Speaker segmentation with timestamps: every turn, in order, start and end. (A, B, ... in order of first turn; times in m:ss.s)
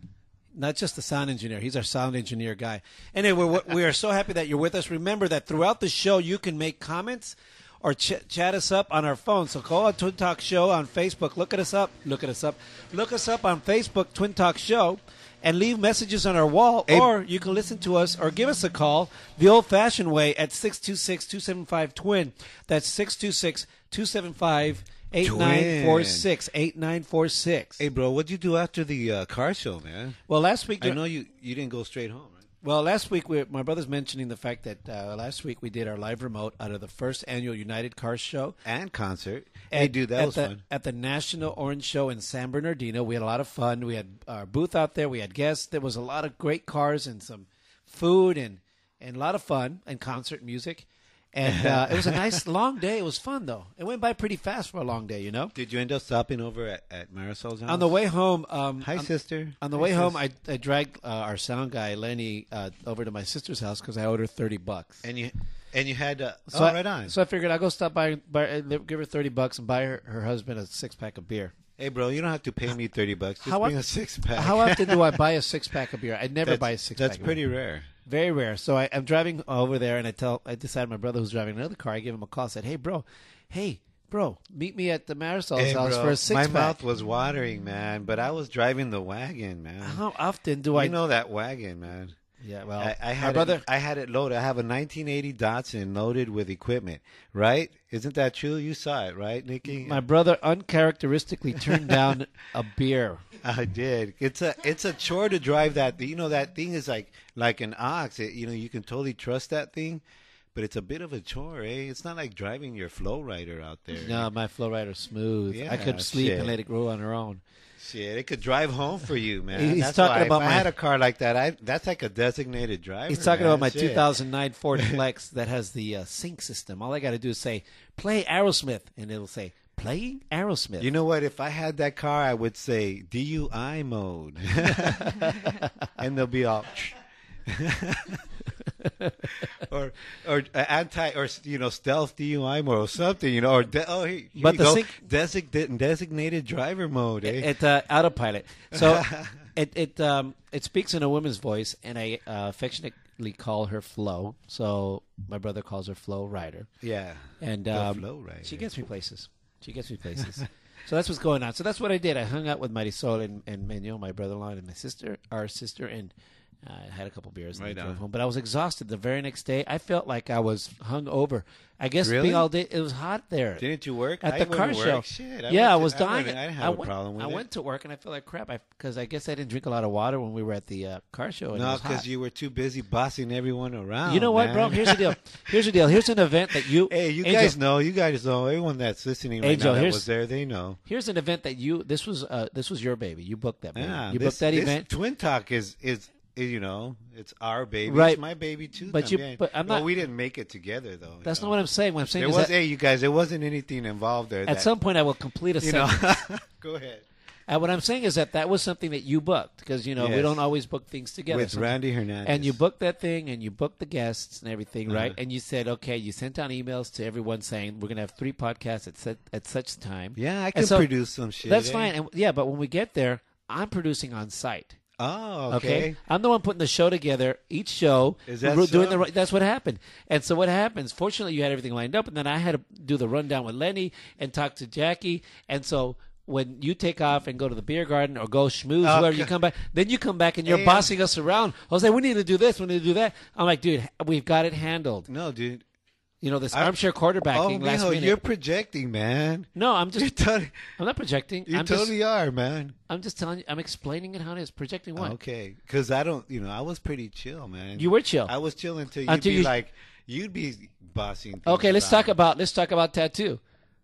0:00.5-0:27.8 A
0:25.2-0:26.3 B
0:27.8-0:30.2 B
0:30.3-0:31.0 A
0:30.8-0:32.4 B
0:32.6-0:38.6 A
0:38.6-0:40.6 B
0:39.7-0:55.5 A
0:51.4-0:52.4 B
0:55.5-0:57.9 B
0:57.7-1:05.1 A
0:58.8-1:00.2 B
1:05.0-1:07.1 B
1:06.5-1:11.5 A
1:11.8-1:15.2 B
1:13.4-1:13.7 A
1:14.3-1:17.4 A
1:16.4-1:17.9 B
1:18.0-1:26.8 A
1:25.6-1:30.0 B
1:29.8-1:31.0 A
1:30.7-1:32.2 B
1:32.4-1:33.6 A
1:32.8-1:40.0 B
1:39.7-1:43.2 A
1:41.6-1:42.1 B
1:43.4-1:50.0 B
1:50.5-1:54.3 B
1:53.9-1:57.4 A
1:55.5-1:56.6 B
1:57.8-2:04.1 B
1:59.5-2:00.7 A
2:03.1-2:10.9 A
2:10.8-2:18.2 B
2:15.0-2:15.3 A
2:18.8-2:19.2 A
2:19.4-2:27.5 B
2:24.4-2:25.0 A
2:27.2-2:36.7 A
2:28.7-2:29.4 B
2:36.8-2:38.6 B
2:37.4-2:46.1 A
2:46.6-2:53.6 A
2:47.5-2:48.0 B
2:52.0-2:52.5 B
2:53.6-2:57.4 B
2:54.2-3:02.0 A
3:01.5-3:05.2 B
3:04.0-3:07.6 A
3:06.9-3:10.8 B
3:09.4-3:10.1 A
3:10.8-3:14.9 A
3:13.7-3:21.6 B
3:17.8-3:18.2 A
3:18.9-3:19.9 A
3:21.2-3:22.5 A
3:22.1-3:24.7 B
3:24.4-3:26.0 A
3:25.6-3:27.0 B
3:27.5-3:40.9 A
3:30.0-3:30.4 B
3:31.3-3:32.6 B
3:34.9-3:35.2 B
3:40.2-3:41.9 B
3:41.4-3:44.8 A
3:45.0-3:46.0 B
3:45.5-4:05.1 A
3:48.3-3:49.0 B
3:58.8-3:59.3 B
4:00.4-4:00.9 B
4:05.1-4:05.6 B
4:06.2-4:08.2 A
4:07.3-4:10.7 B
4:09.6-4:10.1 A
4:10.8-4:11.9 A
4:11.5-4:12.8 B
4:12.9-4:15.2 A
4:15.0-4:22.1 B
4:17.8-4:18.3 A
4:19.1-4:19.5 A
4:21.4-4:23.4 A